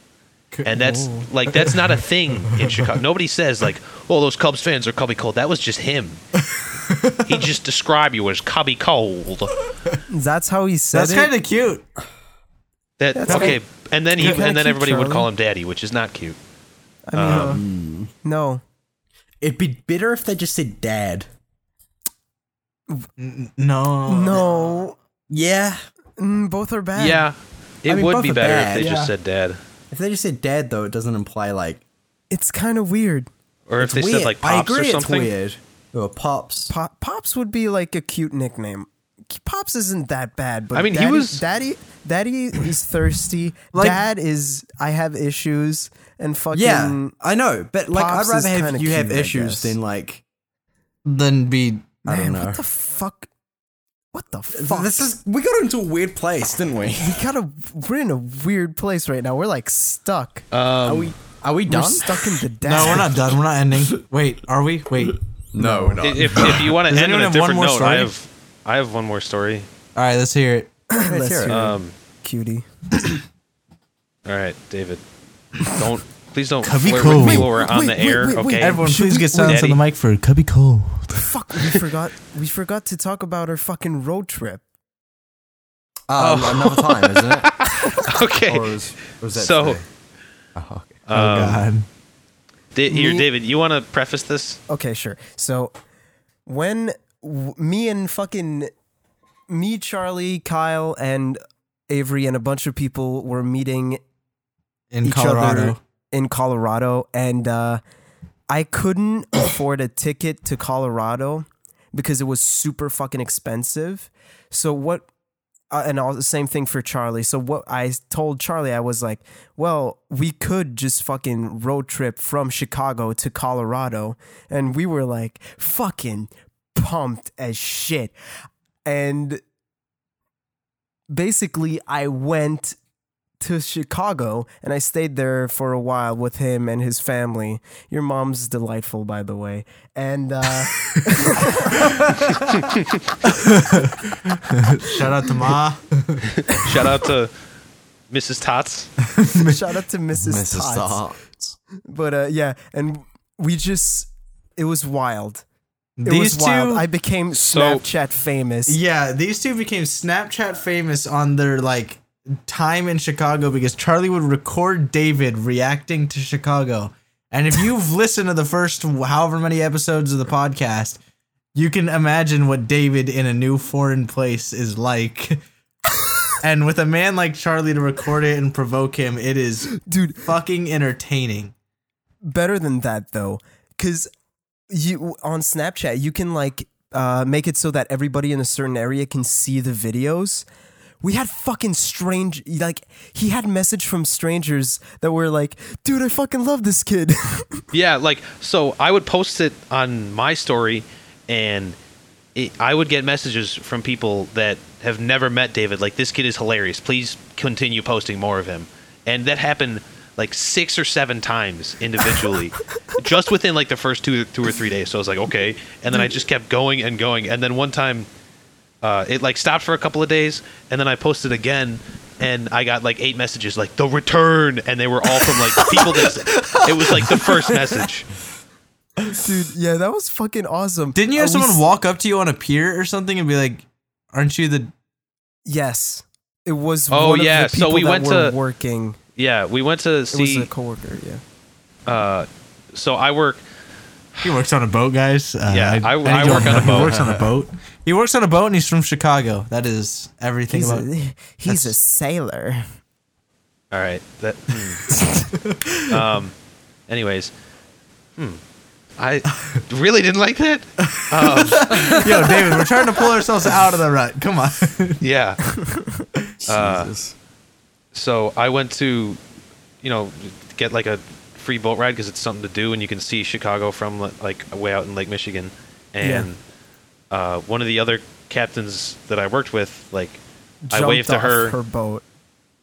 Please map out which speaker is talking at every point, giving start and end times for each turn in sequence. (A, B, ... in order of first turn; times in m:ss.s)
0:00.5-0:00.8 A
0:00.6-0:06.2 B
0:00.7-0:01.3 C
0:01.5-0:02.9 A
0:06.5-0:07.4 A
0:07.2-0:09.6 B
0:10.1-0:11.3 C
0:10.9-0:11.8 A
0:13.0-0:16.4 B
0:13.1-0:13.6 C
0:13.3-0:13.5 A
0:14.2-0:15.3 C
0:17.1-0:17.6 C
0:17.1-0:17.5 B
0:17.2-0:18.1 D
0:17.3-0:17.6 A
0:18.2-0:18.6 C
0:19.4-0:21.3 D
0:23.2-0:24.8 A
0:24.1-0:25.0 C
0:25.3-0:25.8 D
0:26.2-0:27.2 C
0:27.0-0:29.6 B
0:27.9-0:29.0 D
0:28.8-0:29.1 A
0:29.9-0:31.8 D
0:32.3-0:33.3 C
0:33.7-0:35.3 B
0:33.8-0:36.7 D
0:36.7-0:47.1 C
0:40.7-0:41.4 B
0:43.7-0:44.0 A
0:46.5-0:50.2 D
0:47.9-0:49.8 C
0:51.0-0:52.0 A
0:52.0-0:52.6 D
0:52.0-0:53.3 C
0:54.1-0:55.1 C
0:54.5-0:57.2 D
0:57.0-1:00.4 C
1:00.5-1:01.1 B
1:00.8-1:03.0 D
1:01.7-1:03.1 C
1:02.6-1:05.2 A
1:05.5-1:06.7 D
1:05.6-1:06.0 C
1:06.0-1:09.7 B
1:06.8-1:08.1 A
1:09.9-1:10.7 A
1:10.9-1:12.7 C
1:11.0-1:11.6 D
1:11.5-1:11.9 B
1:14.2-1:15.0 B
1:15.6-1:19.8 B
1:16.6-1:17.5 A
1:17.0-1:19.6 C
1:18.6-1:21.3 A
1:21.2-1:24.6 C
1:26.1-1:27.6 D
1:26.2-1:28.7 B
1:28.4-1:29.8 D
1:29.3-1:29.8 B
1:30.6-1:31.0 D
1:31.1-1:31.7 B
1:31.1-1:31.8 A
1:32.7-1:34.6 B
1:32.9-1:33.3 C
1:34.7-1:35.7 C
1:36.4-1:38.7 C
1:39.5-1:44.0 C
1:44.9-1:45.8 A
1:45.0-1:47.8 C
1:48.5-1:55.1 C
1:55.7-2:08.1 C
2:08.8-2:09.4 C
2:11.1-2:12.8 C
2:13.4-2:22.0 C
2:21.8-2:22.6 A
2:23.2-2:26.3 A
2:26.5-2:27.3 B
2:28.1-2:28.9 B
2:29.1-2:29.6 A
2:29.3-2:31.0 C
2:30.1-2:31.6 D
2:31.9-2:35.4 C
2:36.0-2:36.8 A
2:36.0-2:38.8 C
2:37.3-2:37.8 B
2:38.7-2:51.0 A
2:51.5-2:55.4 A
2:56.4-3:01.5 A
2:59.8-3:00.3 C
3:02.2-3:04.1 C
3:04.7-3:10.4 C
3:11.0-3:17.6 C
3:17.7-3:21.8 B
3:22.3-3:38.1 B
3:38.8-3:48.1 B
3:45.2-3:47.8 A
3:49.0-3:51.6 C
3:50.9-3:54.7 A
3:55.4-3:59.0 C
3:56.9-3:58.4 B
3:59.2-4:00.5 B
4:00.1-4:01.2 C
4:01.8-4:03.4 B
4:04.2-4:10.9 A
4:05.5-4:07.0 B
4:06.3-4:07.3 D
4:10.5-4:12.6 C
4:11.5-4:11.7 A
4:13.7-4:15.0 B
4:15.0-4:16.0 A
4:15.9-4:16.3 B
4:16.9-4:17.3 B
4:19.0-4:22.3 B
4:20.9-4:25.0 A
4:25.0-4:25.4 B
4:26.4-4:27.1 D
4:26.5-4:26.9 B
4:27.9-4:29.2 B
4:29.8-4:36.4 B
4:36.0-4:36.3 C
4:37.1-4:40.2 B
4:40.6-4:42.0 C
4:40.7-4:41.6 B